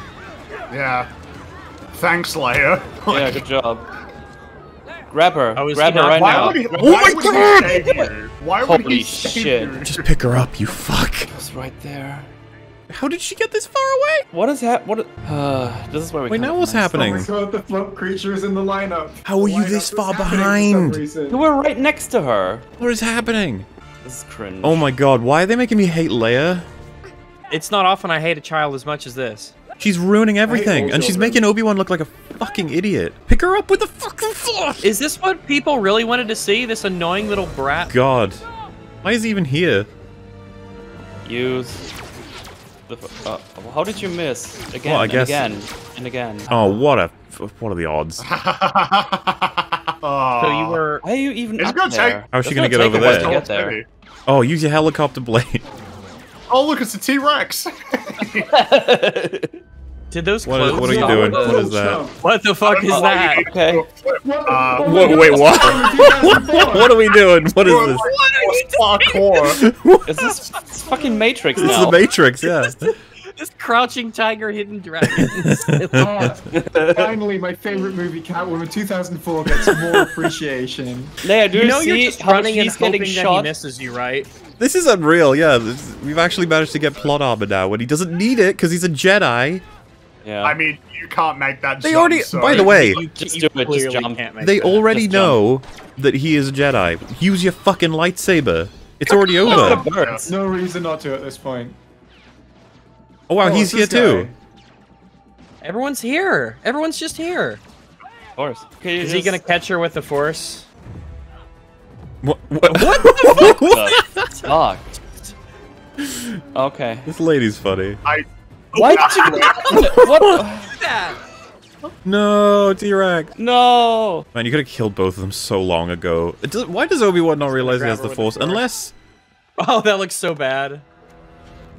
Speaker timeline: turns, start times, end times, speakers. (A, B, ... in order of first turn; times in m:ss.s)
0:00.7-0:01.1 A
0:01.9-0:03.4 A
0:03.1-0:03.9 B
0:05.1-0:06.8 B
0:05.6-0:08.1 C
0:06.1-0:10.2 A
0:06.8-0:07.8 D
0:08.6-0:09.8 B
0:09.8-0:11.3 D
0:11.3-0:12.3 B
0:12.9-0:14.2 D
0:14.3-0:17.1 B
0:16.3-0:17.3 D
0:16.9-0:21.5 E
0:19.2-0:21.1 D
0:21.3-0:22.6 B
0:22.8-0:23.7 D
0:24.0-0:24.9 B
0:24.6-0:26.7 D
0:27.5-0:29.6 C
0:29.8-0:34.9 D
0:30.5-0:31.5 E
0:34.8-0:37.9 C
0:37.9-0:38.4 D
0:39.0-0:39.9 D
0:41.2-0:41.9 B
0:42.9-0:46.5 B
0:44.8-0:45.5 D
0:46.5-0:48.2 D
0:48.2-0:50.8 A
0:50.4-0:51.0 C
0:51.0-0:53.8 B
0:51.6-0:53.9 A
0:52.3-0:53.4 D
0:54.3-0:55.6 D
0:56.5-0:58.5 A
0:58.5-0:59.6 B
1:00.1-1:01.6 C
1:00.4-1:02.0 D
1:00.7-1:02.2 E
1:02.2-1:03.5 C
1:02.6-1:05.8 A
1:02.9-1:03.8 B
1:04.2-1:07.1 E
1:04.8-1:08.1 D
1:07.5-1:09.6 A
1:07.9-1:09.6 C
1:09.5-1:10.3 D
1:10.1-1:12.0 B
1:10.2-1:16.3 C
1:11.6-1:12.9 D
1:15.1-1:16.4 D
1:16.0-1:21.1 E
1:16.5-1:17.2 B
1:21.2-1:23.5 B
1:21.5-1:24.3 C
1:24.6-1:29.6 D
1:30.2-1:30.6 B
1:30.4-1:32.8 A
1:31.8-1:33.0 D
1:32.4-1:35.4 C
1:33.0-1:34.3 B
1:34.4-1:39.8 D
1:39.1-1:40.3 B
1:39.2-1:40.3 A
1:40.2-1:41.8 E
1:43.3-1:44.3 D
1:43.4-1:44.4 E
1:45.6-1:47.6 C
1:48.4-1:49.4 B
1:49.0-1:50.7 C
1:52.2-1:54.3 D
1:52.7-1:53.6 C
1:53.4-1:54.9 B
1:56.0-1:56.4 D
1:56.5-1:57.1 B
1:57.1-1:58.0 D
1:58.0-1:59.9 A
1:58.8-2:01.2 C
1:59.8-2:00.5 B
1:59.8-2:00.5 D
2:02.0-2:03.4 D
2:03.4-2:04.3 B
2:04.3-2:08.9 D
2:07.5-2:08.7 C
2:09.6-2:10.8 C